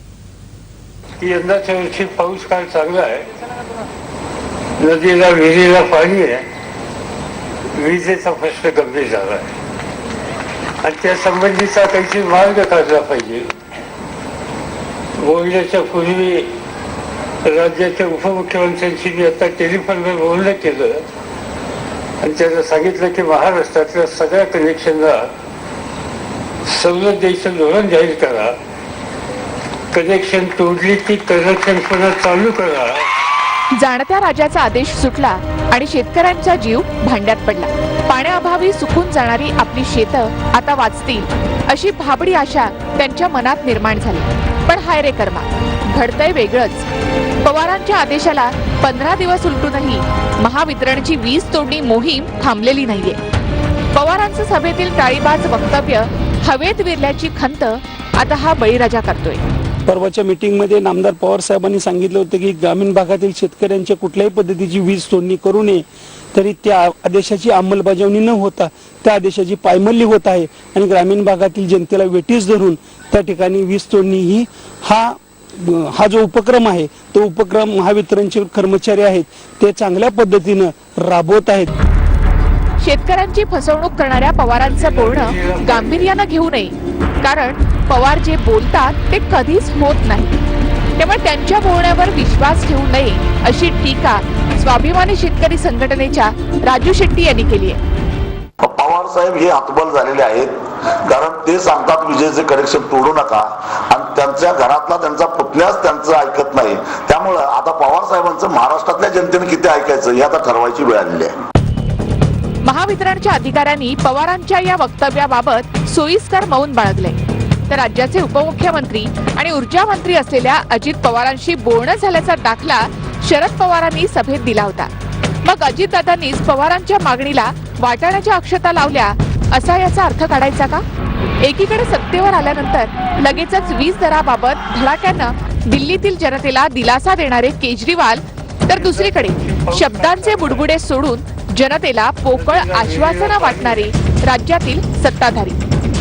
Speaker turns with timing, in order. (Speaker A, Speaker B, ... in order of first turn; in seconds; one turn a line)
Speaker A: 1.2-3.2
Speaker A: 4.8-6.5
Speaker A: 7.7-9.5
Speaker A: 10.8-13.5
Speaker A: 15.2-16.5
Speaker A: 17.4-21.0
Speaker A: 22.2-25.3
Speaker A: 26.6-28.5
Speaker A: 29.9-33.1
Speaker B: 33.8-46.9
Speaker B: 47.4-53.2
Speaker B: 53.9-59.4
Speaker C: 59.9-81.7
Speaker B: 82.8-90.4
Speaker A: 84.5-86.1
Speaker B: 91.0-97.8
Speaker D: 98.6-111.3
Speaker B: 112.6-117.2
Speaker B: 117.7-124.9
Speaker B: 125.4-130.8
Speaker B: 131.4-145.6
Speaker A: 138.7-140.7
Speaker A: 142.3-143.9